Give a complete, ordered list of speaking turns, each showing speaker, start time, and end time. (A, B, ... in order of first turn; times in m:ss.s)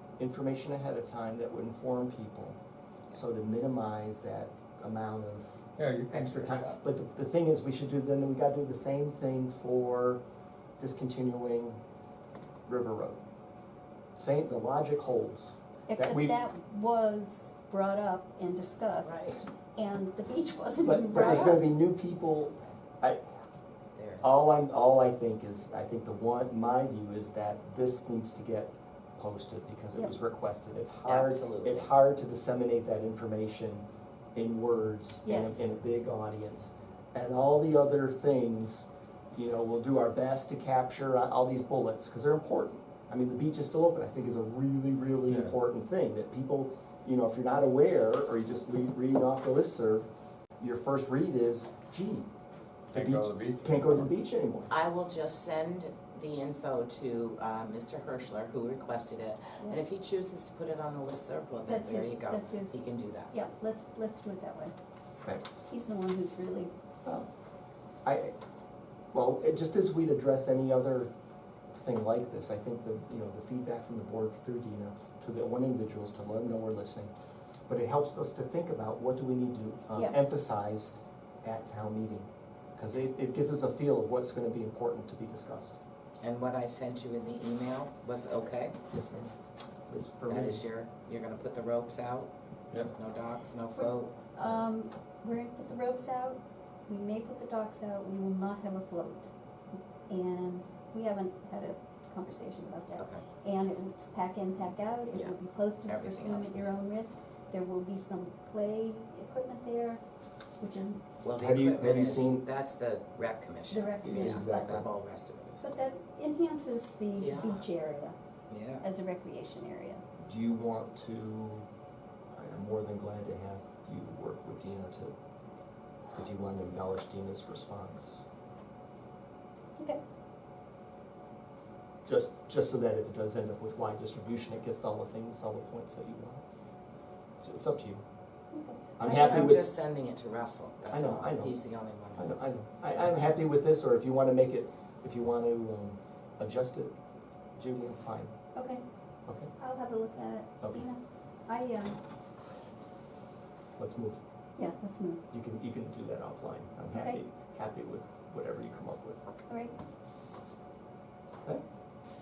0:00.2-0:02.6 A
0:03.1-0:05.5 A
0:05.8-0:06.8 B
0:06.1-0:10.2 A
0:10.8-0:11.8 A
0:12.7-0:13.2 A
0:14.2-0:16.4 A
0:15.9-0:21.6 C
0:19.0-0:19.4 D
0:20.8-0:23.2 A
0:23.9-0:24.4 D
0:24.2-0:50.1 A
0:31.0-0:31.9 D
0:35.2-0:35.7 C
0:45.3-0:45.6 B
0:50.6-0:52.3 A
0:52.9-0:54.1 B
0:52.9-0:54.7 A
0:54.7-1:03.3 D
1:01.6-1:04.7 C
1:05.2-1:05.6 A
1:05.7-1:06.7 C
1:08.0-1:08.4 A
1:09.1-1:11.1 A
1:11.7-1:17.1 A
1:17.7-1:20.9 A
1:21.4-1:25.8 A
1:26.2-1:28.8 D
1:28.9-1:29.3 A
1:29.9-1:30.6 A
1:30.3-1:32.3 D
1:32.9-1:34.4 D
1:33.8-1:50.0 C
1:43.0-1:43.2 D
1:45.1-1:46.7 D
1:50.6-1:51.0 C
1:51.2-1:55.7 D
1:51.4-1:52.4 A
1:53.7-1:54.8 C
1:54.0-1:54.9 A
1:55.6-1:58.2 C
1:57.2-1:57.6 D
1:58.5-1:58.8 D
1:58.8-2:00.0 C
2:00.2-2:01.7 A
2:02.3-2:05.2 A
2:06.1-2:08.2 A
2:12.0-2:16.4 A
2:17.4-2:18.0 A
2:18.5-2:19.6 C
2:19.0-2:19.6 A
2:19.1-2:22.3 D
2:20.9-2:21.6 A
2:22.1-2:26.9 A
2:27.6-2:28.3 A
2:28.5-2:28.8 C
2:29.3-2:29.5 A
2:29.6-2:32.0 C
2:33.8-2:34.2 A
2:34.6-2:35.2 C
2:35.3-2:39.2 A
2:36.9-2:37.2 C
2:39.5-2:39.7 C